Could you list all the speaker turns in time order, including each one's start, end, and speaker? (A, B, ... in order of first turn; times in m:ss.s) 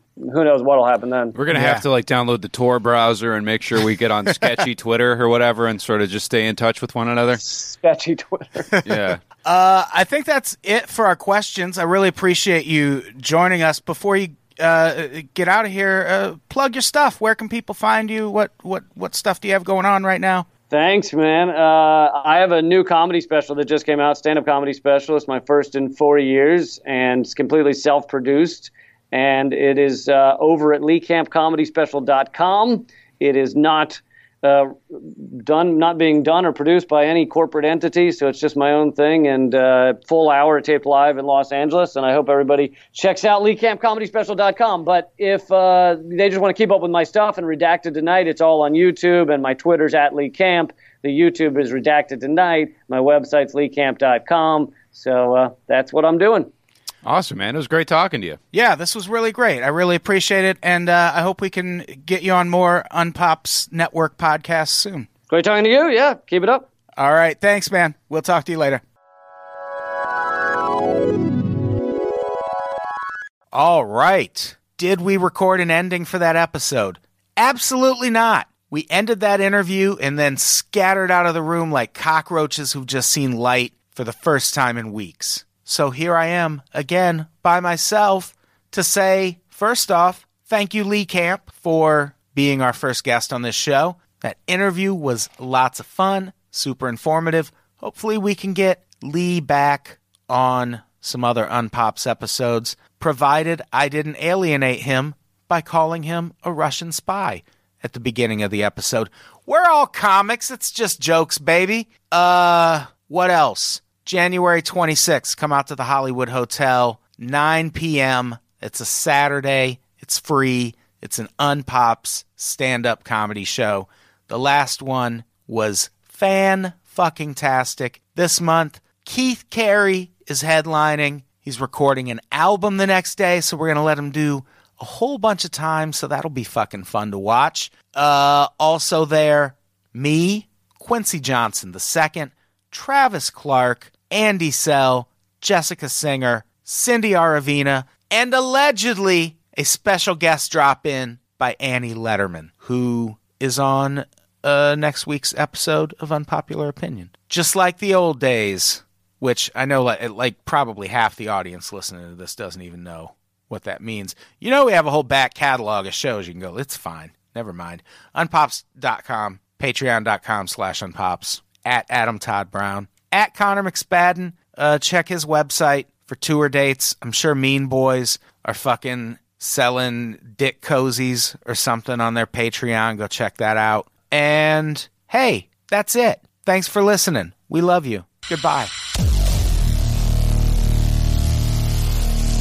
0:00.2-0:01.4 A
0:01.4-0:07.4 B
0:01.5-0:01.8 C
0:07.4-0:08.7 A
0:08.8-0:09.2 B
0:09.4-0:20.5 C
0:20.7-0:56.5 A
0:57.0-0:58.4 B
0:58.5-1:05.1 C
1:05.3-1:06.7 A
1:07.0-1:08.8 C
1:13.5-3:08.7 C